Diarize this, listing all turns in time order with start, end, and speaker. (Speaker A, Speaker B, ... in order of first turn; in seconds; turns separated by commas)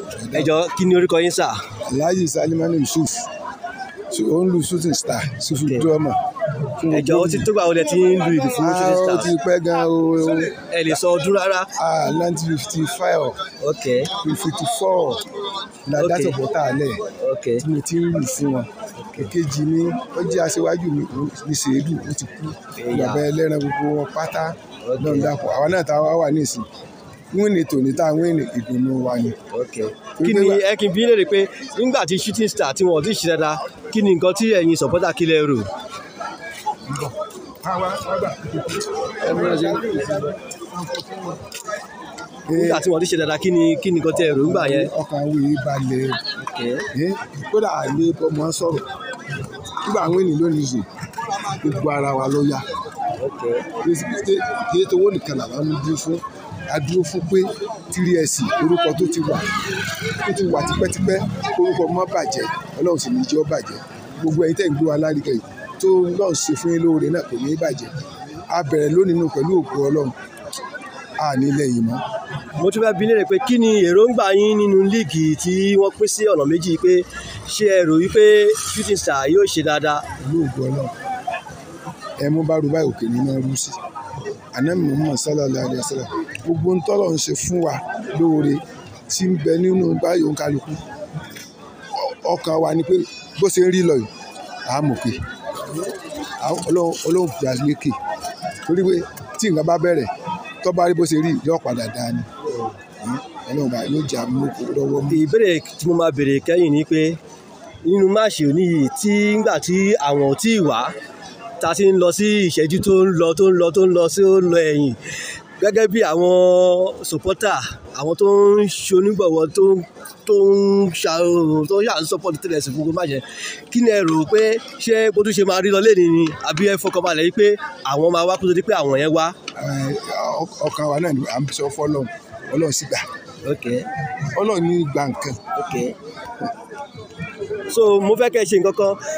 Speaker A: 0.2-0.5, Speaker B: 0.3-1.6, Speaker A: 1.9-3.3, Speaker A: 4.1-6.2, Speaker B: 5.6-5.9, Speaker A: 6.8-7.5, Speaker B: 6.9-9.3, Speaker A: 8.5-11.0, Speaker B: 10.6-11.7, Speaker A: 11.8-13.4, Speaker B: 13.6-14.2, Speaker A: 14.2-15.2, Speaker A: 15.9-17.0, Speaker B: 16.0-16.4, Speaker B: 17.2-17.6, Speaker A: 17.6-26.7, Speaker B: 19.0-19.3, Speaker B: 22.8-23.2, Speaker B: 24.8-25.3, Speaker A: 27.3-29.4, Speaker B: 29.5-35.7, Speaker A: 30.2-30.7, Speaker A: 36.9-41.4, Speaker B: 39.2-40.3, Speaker A: 42.5-42.9, Speaker B: 42.5-44.9, Speaker A: 44.1-46.2, Speaker B: 46.4-46.9, Speaker A: 46.9-48.9, Speaker A: 49.8-52.6, Speaker B: 53.2-53.7, Speaker A: 53.8-59.6, Speaker A: 60.1-67.9, Speaker A: 68.5-70.2, Speaker A: 71.2-72.0, Speaker B: 72.5-80.1, Speaker A: 80.2-80.9, Speaker A: 82.2-83.8, Speaker A: 84.5-90.8, Speaker A: 92.0-94.1, Speaker A: 94.7-95.2, Speaker A: 96.4-98.0, Speaker A: 98.6-100.1, Speaker A: 100.6-102.3, Speaker A: 103.0-105.3, Speaker B: 105.1-107.2, Speaker B: 107.8-110.9, Speaker B: 111.6-115.0, Speaker B: 115.6-129.4, Speaker A: 129.6-133.0, Speaker B: 133.4-133.9, Speaker A: 134.3-135.4, Speaker B: 135.5-136.0, Speaker B: 137.7-139.0